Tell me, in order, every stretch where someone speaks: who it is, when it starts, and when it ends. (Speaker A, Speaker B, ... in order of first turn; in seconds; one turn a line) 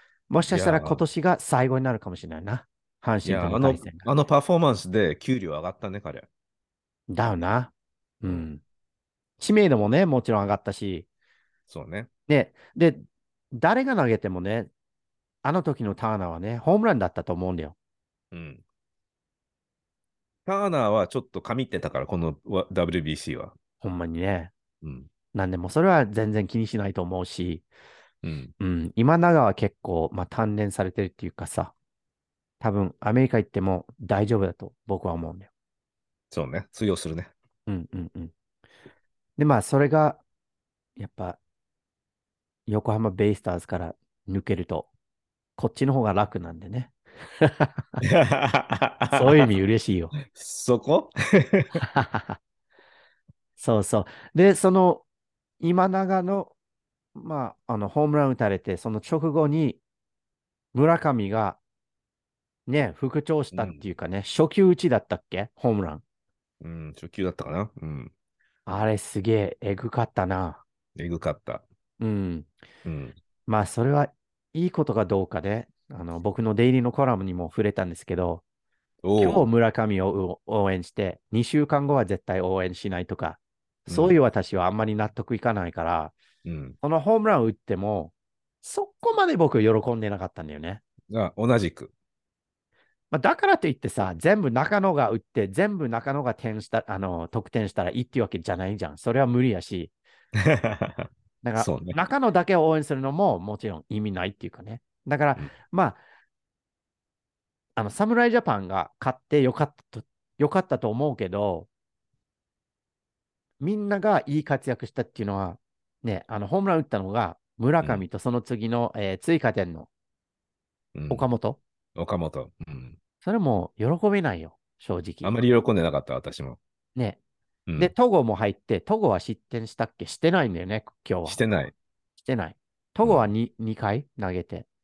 Speaker A: 0.3-4.1
Speaker B: 0.5-1.0
Speaker B: 3.2-6.3
Speaker A: 7.1-8.6
Speaker A: 9.4-11.1
Speaker B: 11.7-12.1
Speaker A: 12.3-14.7
Speaker A: 15.4-17.7
Speaker B: 18.3-18.6
Speaker B: 20.4-23.5
Speaker A: 23.8-24.5
Speaker B: 24.8-25.1
Speaker A: 25.3-27.6
Speaker B: 28.2-28.5
Speaker A: 28.6-31.7
Speaker A: 32.6-35.5
Speaker B: 36.3-37.3
Speaker A: 37.7-38.3
Speaker A: 39.4-40.2
Speaker A: 41.0-41.4
Speaker A: 42.7-44.9
Speaker A: 45.6-48.0
Speaker B: 48.0-49.5
Speaker A: 49.1-50.1
Speaker B: 50.2-51.8
Speaker A: 51.8-52.4
Speaker A: 53.6-55.0
Speaker A: 55.6-56.5
Speaker A: 57.1-59.8
Speaker A: 60.7-61.6
Speaker A: 62.7-66.0
Speaker B: 63.5-63.8
Speaker B: 66.6-68.1
Speaker A: 68.7-70.6
Speaker B: 71.0-71.6
Speaker A: 72.0-72.5
Speaker B: 72.8-73.2
Speaker A: 73.5-78.4
Speaker B: 79.0-79.4
Speaker A: 79.2-86.1
Speaker B: 83.9-84.1
Speaker B: 86.4-86.8
Speaker A: 86.8-90.8
Speaker B: 91.1-91.9
Speaker A: 93.1-99.9
Speaker B: 100.4-102.0
Speaker A: 101.4-106.0
Speaker A: 107.8-111.7
Speaker A: 113.6-119.9
Speaker B: 120.9-121.2
Speaker A: 121.1-121.6
Speaker B: 122.0-123.0
Speaker A: 123.2-125.3
Speaker B: 125.2-126.6
Speaker B: 127.7-127.9
Speaker A: 127.8-131.4
Speaker B: 131.2-131.7
Speaker A: 132.2-134.7
Speaker B: 133.0-133.3